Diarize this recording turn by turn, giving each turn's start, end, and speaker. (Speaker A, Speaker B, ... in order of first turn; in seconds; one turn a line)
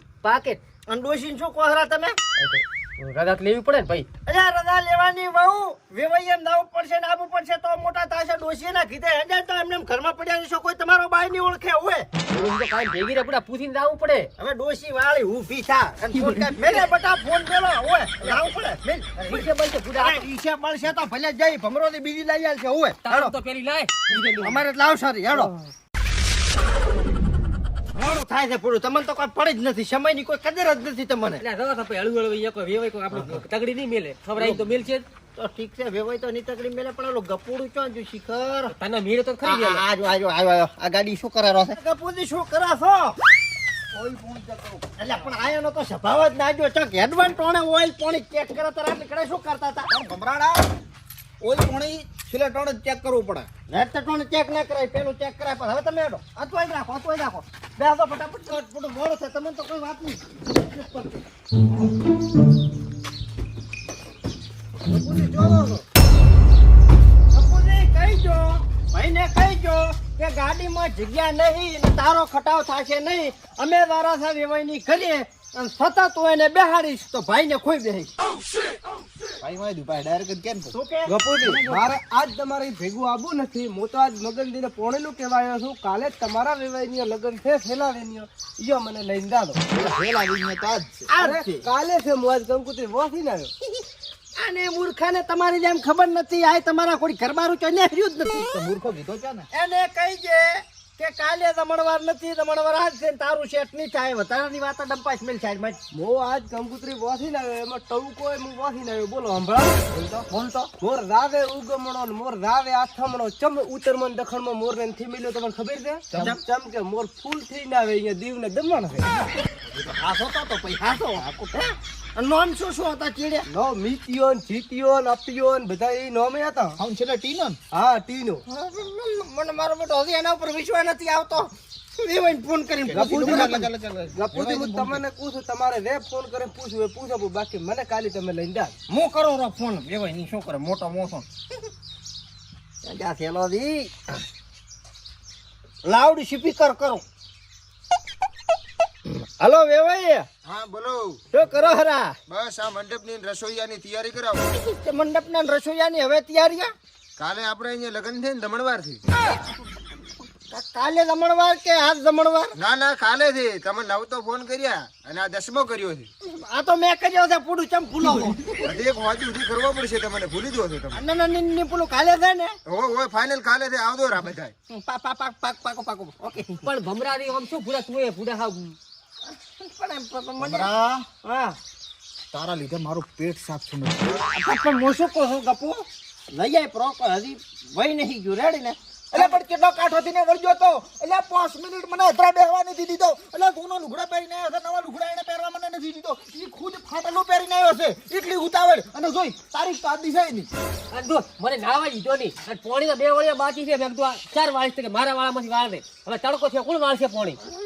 Speaker A: 0.2-0.6
Speaker B: 0.9-2.2
Speaker A: 2.4-4.1
Speaker B: 4.2-12.1
Speaker A: 12.3-14.3
Speaker B: 14.4-23.3
Speaker A: 16.1-16.8
Speaker A: 19.2-20.2
Speaker A: 23.0-24.6
Speaker B: 24.1-25.5
Speaker B: 27.9-31.4
Speaker A: 31.4-35.0
Speaker B: 34.4-34.7
Speaker B: 35.3-38.7
Speaker A: 38.7-39.8
Speaker B: 39.4-43.2
Speaker C: 43.9-45.3
Speaker B: 45.0-49.9
Speaker C: 49.9-50.6
Speaker C: 51.4-53.5
Speaker B: 53.7-61.2
Speaker B: 64.9-65.8
Speaker B: 67.3-78.1
Speaker C: 79.4-80.7
Speaker B: 80.7-81.1
Speaker D: 81.1-89.6
Speaker C: 81.4-81.9
Speaker C: 89.7-91.1
Speaker B: 91.1-91.7
Speaker D: 91.2-93.5
Speaker B: 94.3-98.5
Speaker C: 98.4-99.5
Speaker B: 99.5-105.8
Speaker D: 105.9-109.8
Speaker B: 109.9-110.7
Speaker D: 110.8-119.1
Speaker B: 116.1-116.4
Speaker B: 119.6-123.5
Speaker D: 123.5-126.8
Speaker C: 126.8-127.6
Speaker D: 127.7-128.4
Speaker B: 128.5-133.6
Speaker C: 132.8-135.0
Speaker D: 132.9-138.7
Speaker B: 138.9-141.3
Speaker B: 142.8-144.1
Speaker B: 145.8-147.0
Speaker B: 149.4-150.3
Speaker E: 150.4-151.2
Speaker B: 151.3-152.2
Speaker E: 152.3-154.5
Speaker B: 154.5-156.7
Speaker E: 157.2-159.0
Speaker B: 160.5-162.6
Speaker E: 162.6-166.1
Speaker B: 166.2-168.7
Speaker E: 168.6-171.0
Speaker B: 170.9-172.6
Speaker E: 172.7-174.5
Speaker B: 174.7-176.7
Speaker A: 176.6-178.8
Speaker B: 179.4-180.7
Speaker C: 180.4-181.1
Speaker B: 181.2-181.6
Speaker C: 182.3-184.2
Speaker B: 184.2-189.3
Speaker C: 189.1-200.5
Speaker A: 200.9-207.4